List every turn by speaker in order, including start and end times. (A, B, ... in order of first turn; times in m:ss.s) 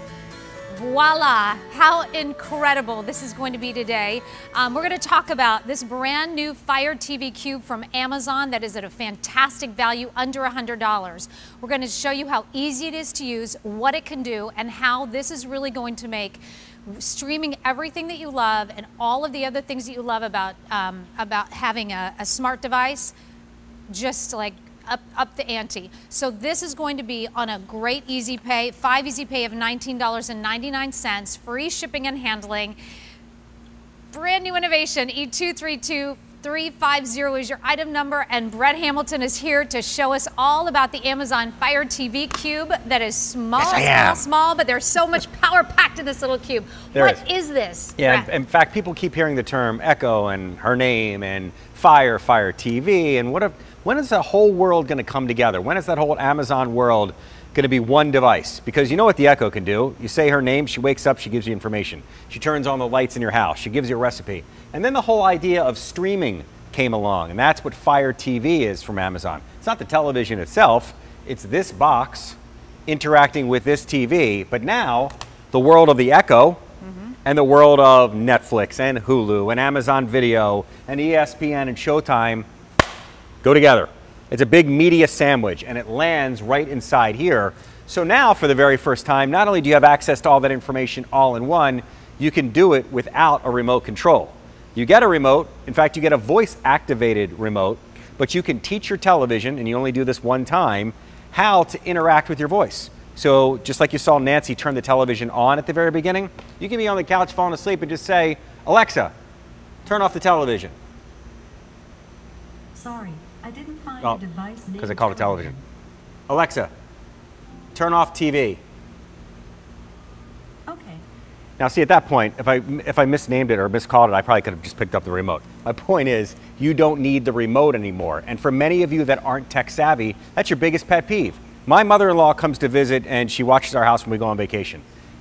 0:00.7-0:23.1 A
0:23.9-0:32.8 A
0:34.1-0:48.3 A
0:43.6-0:44.2 B
0:46.9-0:47.2 B
0:48.0-1:16.6 B
1:16.8-1:17.1 A
1:17.2-1:22.4 B
1:23.4-1:49.1 B
1:49.8-1:50.7 B
1:52.7-1:55.6 C
1:54.8-1:55.5 B
1:56.3-1:56.7 B
1:57.7-1:58.6 B
2:00.7-2:01.0 C
2:01.6-2:14.8 B